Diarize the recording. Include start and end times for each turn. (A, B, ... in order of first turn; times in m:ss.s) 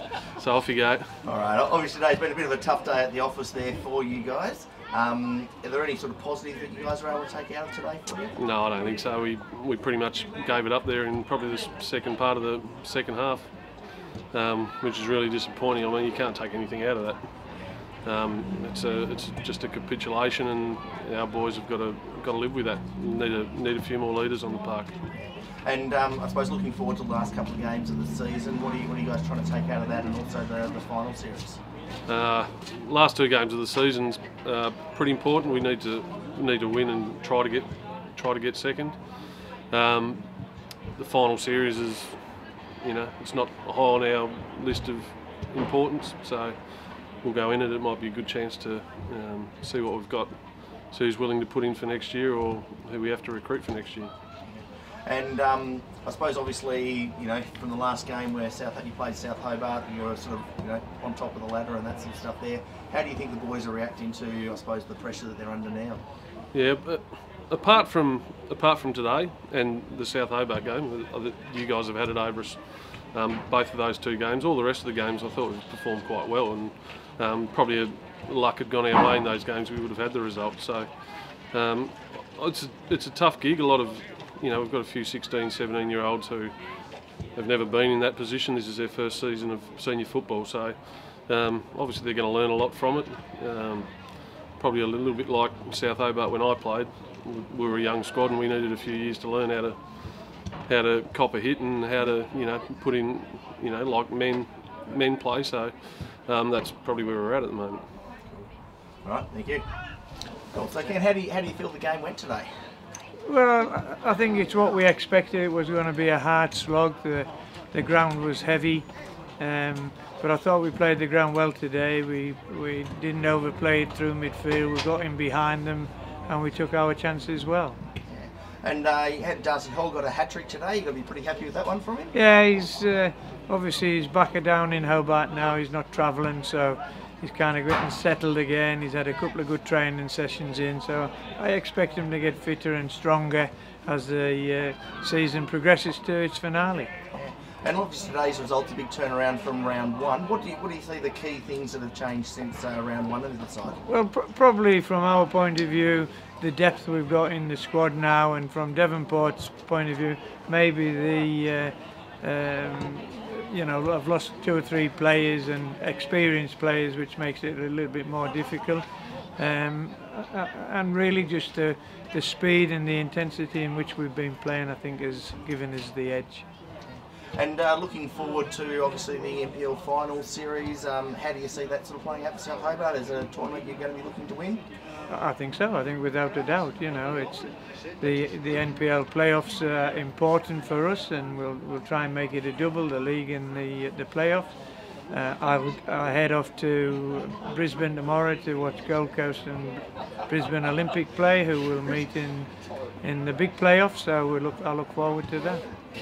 0:00.3-0:01.2 A
0:01.2-0:08.4 B
0:08.4-0:24.9 A
0:25.1-0:31.6 B
0:32.0-0:54.1 A
0:54.5-1:06.0 B
1:06.5-1:47.8 A
1:49.0-1:49.6 B
1:50.5-1:52.5 B
1:53.2-2:07.8 C
2:08.1-2:12.1 B
2:12.1-2:26.9 C
2:27.1-2:33.8 B
2:33.8-2:48.8 C
2:49.4-2:56.4 C
2:57.4-3:04.6 B
3:05.1-3:14.5 C
3:15.1-3:25.6 C